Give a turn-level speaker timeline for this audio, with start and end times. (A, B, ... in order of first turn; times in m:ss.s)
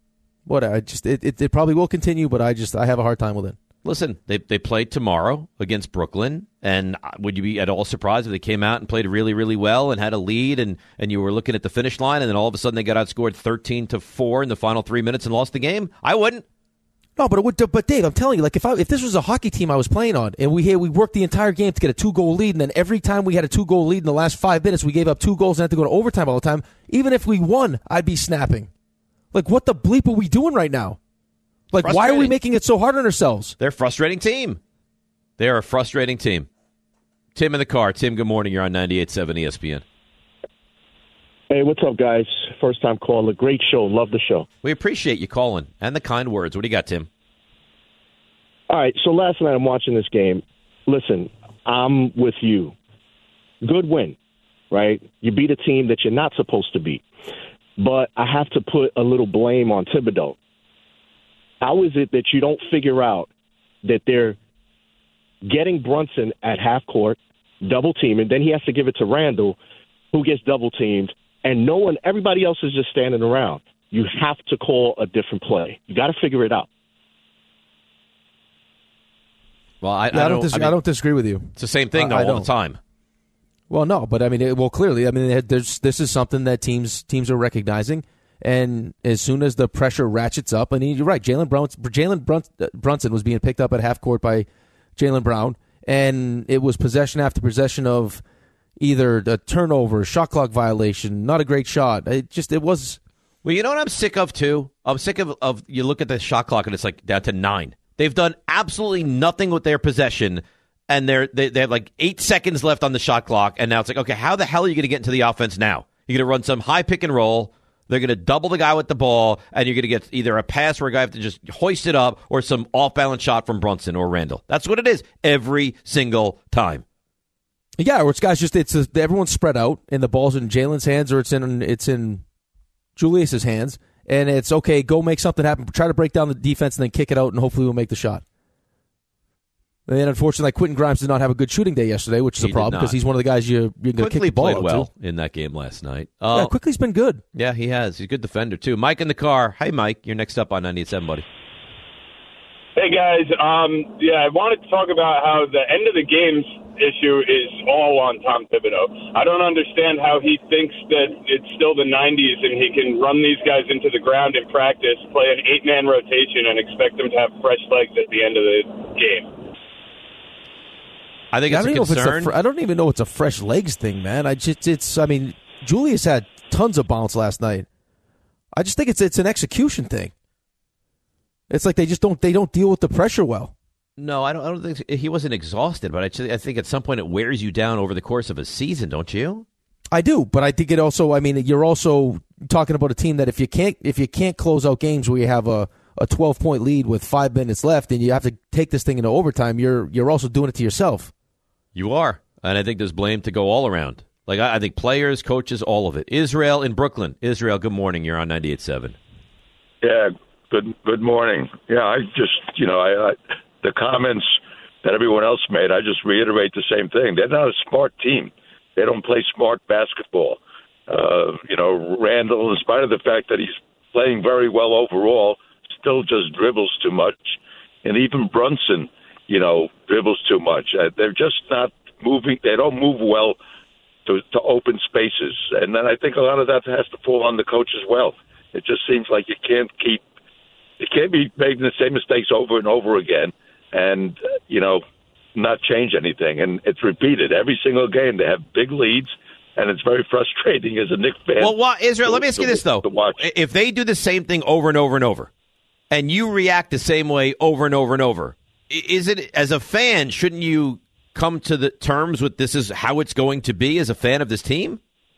0:00.4-0:03.6 A
0:03.8-0:16.4 B
0:17.2-0:28.7 A
0:29.3-0:31.0 A
0:31.7-0:33.6 A
0:31.8-0:32.3 B
0:33.6-0:34.6 B
0:35.4-0:36.5 B
0:37.3-0:39.8 B
0:41.5-0:44.5 C
0:44.6-0:47.1 B
0:48.7-0:52.7 C
0:53.6-0:54.2 C
0:54.7-0:57.0 C
0:57.8-1:00.4 C
1:01.6-1:03.3 C
1:03.8-1:04.4 C
1:05.4-1:09.6 C
1:10.1-1:16.7 C
1:19.8-1:20.8 B
1:20.1-1:22.5 A
1:21.6-1:22.8 B
1:23.7-1:38.2 A
1:38.8-1:43.0 A
1:43.4-2:06.8 B
2:07.8-2:12.2 A
2:13.0-2:18.2 A
2:19.9-2:24.9 A
2:22.4-2:23.0 B
2:24.0-2:26.5 B
2:26.3-2:27.2 A
2:27.3-2:31.2 B
2:32.8-2:49.3 D
2:51.3-2:52.3 B
2:51.5-2:57.7 A
2:58.5-3:00.1 A
3:01.5-3:03.5 A
3:04.0-3:09.4 B
3:09.9-3:21.1 A
3:21.7-3:29.0 B
3:29.8-3:53.4 E
3:54.0-4:00.0 E
4:00.8-4:04.8 E
4:05.3-4:13.2 E
4:11.4-4:15.3 B
4:15.9-4:24.8 B